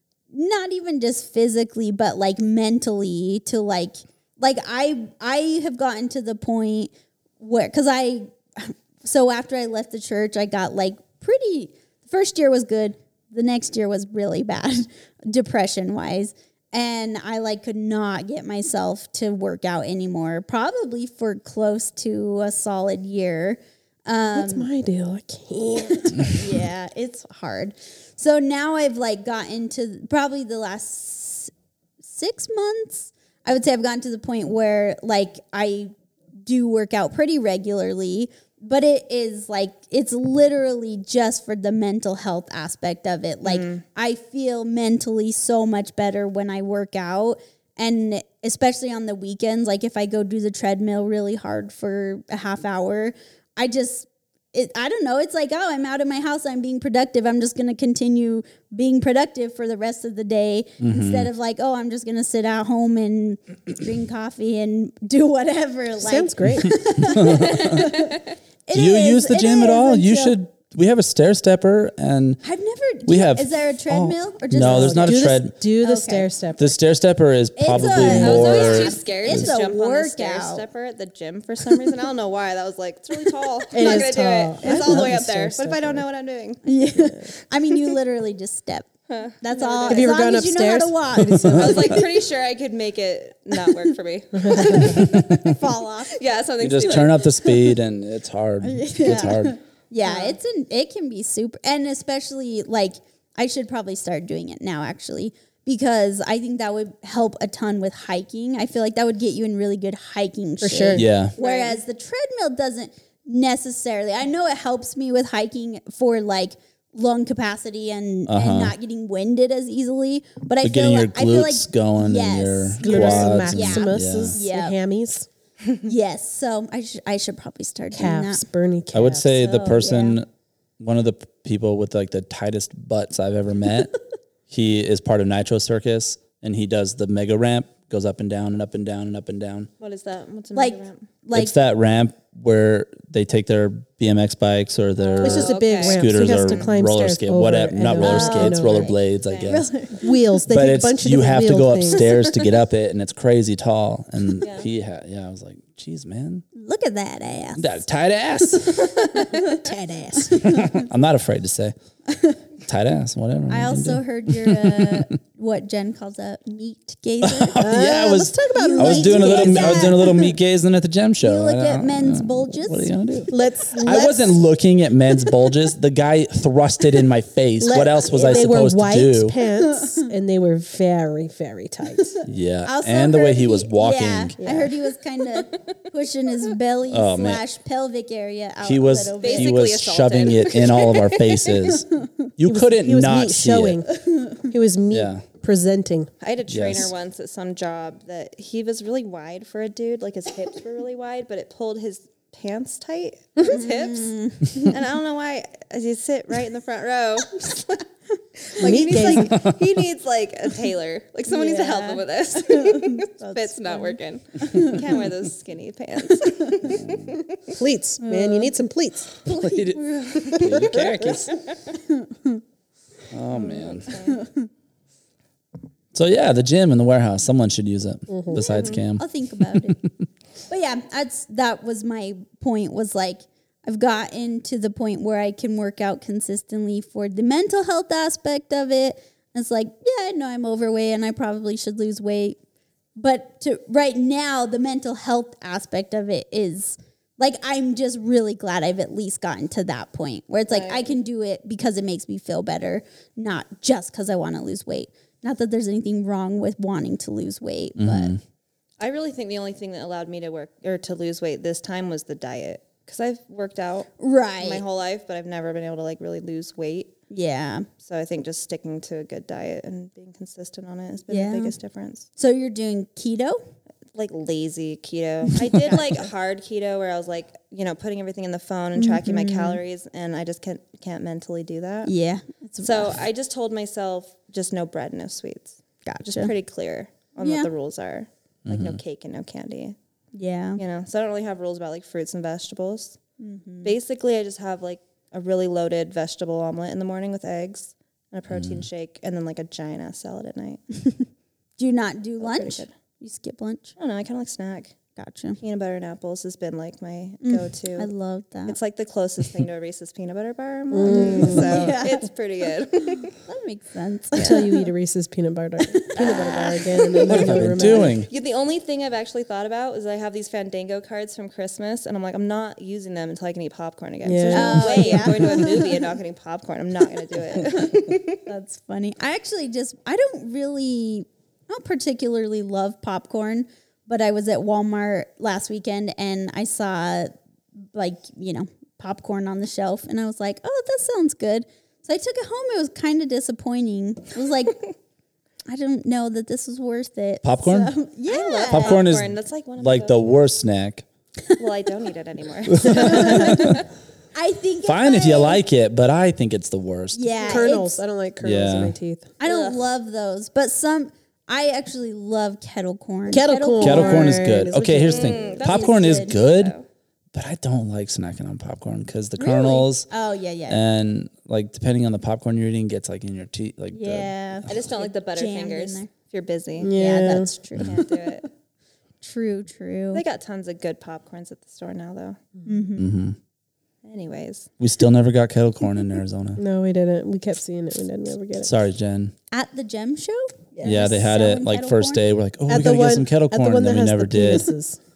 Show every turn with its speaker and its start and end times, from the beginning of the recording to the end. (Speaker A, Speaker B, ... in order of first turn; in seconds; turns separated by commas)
Speaker A: 0.3-24.7, Speaker B: 24.3-26.4, Speaker A: 25.9-31.5, Speaker A: 32.0-35.9, Speaker A: 36.4-70.3, Speaker C: 43.4-43.8, Speaker D: 60.8-61.3, Speaker B: 66.0-66.8, Speaker D: 67.0-67.9, Speaker C: 67.4-68.3, Speaker D: 68.7-72.4, Speaker A: 72.4-76.3, Speaker D: 73.0-75.5, Speaker B: 74.6-76.8, Speaker D: 76.6-79.5, Speaker A: 77.5-80.6, Speaker C: 78.0-86.6, Speaker B: 83.7-86.0, Speaker A: 84.6-85.1, Speaker A: 86.6-88.9, Speaker B: 86.9-87.3, Speaker C: 89.1-90.2, Speaker A: 89.4-92.0, Speaker B: 89.9-92.1, Speaker C: 91.5-95.6, Speaker B: 94.3-95.0, Speaker A: 94.7-96.2, Speaker D: 94.9-95.5, Speaker C: 96.1-97.7, Speaker D: 96.6-99.6, Speaker A: 98.6-124.8, Speaker C: 100.0-100.3, Speaker B: 110.6-111.0, Speaker D: 110.9-111.3, Speaker C: 111.3-111.8, Speaker D: 118.3-118.7, Speaker D: 120.6-124.4, Speaker B: 122.8-125.3, Speaker A: 125.8-128.4, Speaker B: 127.9-129.3, Speaker D: 128.9-130.3, Speaker A: 129.3-130.2, Speaker D: 130.8-134.0, Speaker D: 134.5-139.7, Speaker C: 139.8-141.1, Speaker A: 140.5-141.5, Speaker D: 141.3-149.7, Speaker C: 145.0-146.7, Speaker B: 145.2-148.9, Speaker A: 148.0-150.2, Speaker C: 149.2-149.6, Speaker B: 149.9-152.2, Speaker D: 150.5-156.4, Speaker C: 154.4-154.7, Speaker A: 156.5-157.8, Speaker D: 157.6-159.1, Speaker C: 158.8-159.5, Speaker A: 159.2-160.9, Speaker B: 159.5-160.4, Speaker D: 160.2-161.7, Speaker A: 162.1-162.4, Speaker D: 162.6-165.1, Speaker A: 163.5-167.6, Speaker D: 167.2-179.3, Speaker B: 167.6-170.3, Speaker A: 168.5-170.3, Speaker A: 171.2-173.3, Speaker B: 173.3-174.4, Speaker B: 177.6-182.2, Speaker A: 179.7-180.1, Speaker D: 182.2-184.3, Speaker A: 182.6-189.6, Speaker B: 184.4-184.7, Speaker D: 186.9-187.4, Speaker D: 188.6-193.8, Speaker C: 189.2-191.7, Speaker B: 192.4-196.1, Speaker A: 194.0-194.5, Speaker D: 194.9-195.2, Speaker C: 196.2-207.8, Speaker D: 196.5-196.9, Speaker A: 203.4-204.7, Speaker C: 208.4-217.6, Speaker B: 208.6-209.5, Speaker D: 209.3-209.6, Speaker A: 211.3-214.8, Speaker D: 216.7-217.1, Speaker B: 217.5-219.2, Speaker A: 218.0-218.5, Speaker D: 219.2-221.4, Speaker A: 219.3-219.6, Speaker C: 219.7-221.5, Speaker A: 221.9-222.4, Speaker D: 223.1-223.9, Speaker C: 223.3-224.2, Speaker A: 224.1-224.5, Speaker D: 225.9-229.9, Speaker B: 228.1-228.4, Speaker A: 228.3-229.8, Speaker C: 228.5-228.8, Speaker A: 230.5-242.4, Speaker A: 243.0-258.1, Speaker C: 250.5-250.9, Speaker D: 257.8-258.2, Speaker C: 258.8-266.9, Speaker A: 264.0-264.6, Speaker A: 267.1-267.7, Speaker C: 267.8-272.1, Speaker A: 271.1-271.5, Speaker A: 272.2-273.4, Speaker C: 273.9-281.9, Speaker A: 278.8-279.6, Speaker A: 281.8-283.0, Speaker C: 282.6-289.8, Speaker A: 285.8-286.3, Speaker A: 287.2-287.5, Speaker D: 288.4-288.8, Speaker A: 290.1-290.6, Speaker C: 290.6-293.0, Speaker A: 293.2-293.7, Speaker C: 293.6-300.6, Speaker D: 298.3-298.6, Speaker A: 300.8-301.1, Speaker A: 301.6-303.7, Speaker C: 302.2-302.7, Speaker C: 303.8-304.7, Speaker A: 304.9-305.4, Speaker C: 305.4-307.9, Speaker A: 307.2-308.6, Speaker C: 308.5-313.1, Speaker B: 310.7-311.7, Speaker A: 310.9-312.1, Speaker A: 313.2-314.7, Speaker B: 314.1-318.0, Speaker A: 315.7-317.2, Speaker C: 315.9-316.5, Speaker C: 317.0-328.2, Speaker D: 317.1-318.1, Speaker B: 324.0-325.3, Speaker A: 324.3-325.7, Speaker A: 328.2-337.1, Speaker A: 337.7-344.6, Speaker A: 345.5-348.8, Speaker D: 347.2-347.7, Speaker C: 348.1-350.0, Speaker D: 348.5-350.8, Speaker C: 351.3-353.6, Speaker D: 352.6-353.6, Speaker A: 353.0-353.4, Speaker A: 354.1-355.4, Speaker D: 354.6-357.1, Speaker A: 356.9-357.8, Speaker B: 357.2-359.1, Speaker D: 358.2-358.8, Speaker A: 359.2-364.3, Speaker C: 359.2-359.6, Speaker B: 363.1-365.1, Speaker D: 363.6-366.5, Speaker C: 364.8-366.6, Speaker A: 365.3-366.2, Speaker D: 367.1-369.9, Speaker A: 369.2-370.6, Speaker D: 370.5-374.5, Speaker A: 373.7-375.9, Speaker C: 374.5-376.7, Speaker B: 376.6-377.3, Speaker A: 376.7-378.1, Speaker C: 377.6-378.2, Speaker A: 379.0-380.0, Speaker C: 379.9-382.2, Speaker A: 382.4-382.9, Speaker D: 382.8-383.2, Speaker C: 383.8-384.5, Speaker D: 384.6-386.4, Speaker B: 386.4-388.5, Speaker D: 388.4-389.1, Speaker A: 389.3-392.0, Speaker D: 390.6-394.5, Speaker B: 392.5-394.8